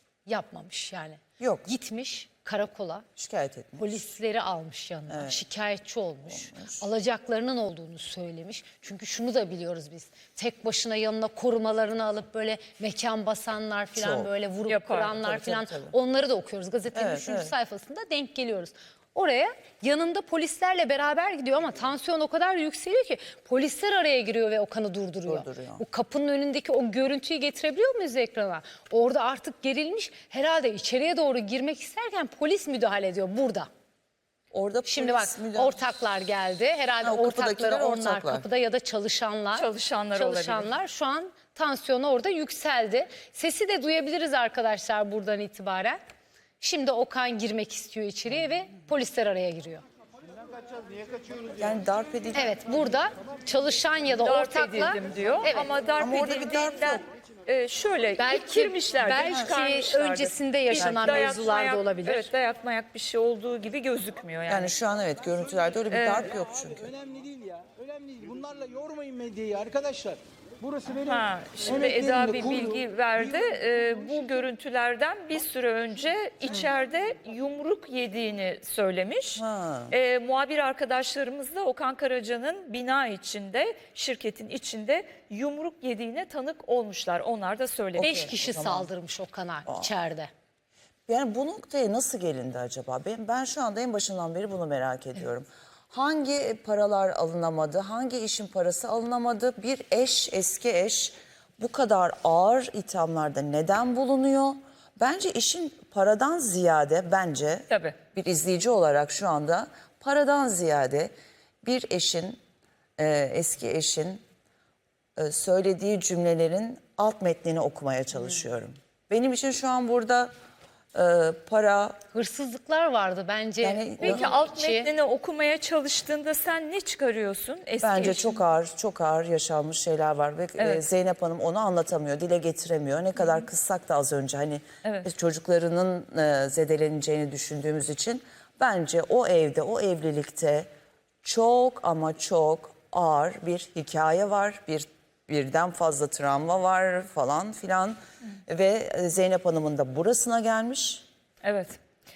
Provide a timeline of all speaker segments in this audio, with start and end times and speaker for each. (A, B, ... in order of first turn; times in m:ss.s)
0:00.2-0:03.1 A
0:01.4-0:01.7 B
0:03.2-0:04.0 B
0:03.8-0:33.7 A
0:05.1-0:05.4 B
0:06.2-0:06.8 B
0:13.9-0:14.3 B
0:14.7-0:15.1 C
0:15.1-0:15.9 B
0:16.9-0:17.5 B
0:25.3-0:25.8 B
0:34.5-0:35.9 B
0:34.8-0:46.0 A
0:37.0-0:38.4 B
0:39.5-0:40.7 C
0:46.6-0:49.8 A
0:51.6-0:52.5 B
0:52.3-0:55.7 A
0:54.1-1:04.7 C
0:56.0-0:57.0 B
0:58.2-1:02.3 A
0:59.2-0:59.5 B
1:00.8-1:01.3 B
1:04.5-1:06.9 B
1:05.9-1:06.3 C
1:07.1-1:10.2 D
1:10.9-1:28.2 C
1:19.4-1:19.9 B
1:27.9-1:28.9 B
1:28.0-1:30.3 A
1:29.6-1:29.9 B
1:31.1-1:51.1 B
1:47.7-1:48.0 C
1:51.6-1:52.4 B
1:53.0-1:54.2 B
1:55.2-2:00.3 B
2:00.9-2:02.0 B
2:02.1-2:04.9 A
2:03.6-2:04.2 B
2:04.0-2:08.4 C
2:07.8-2:20.7 B
2:10.6-2:10.9 C
2:21.2-2:31.0 B
2:31.4-2:31.8 C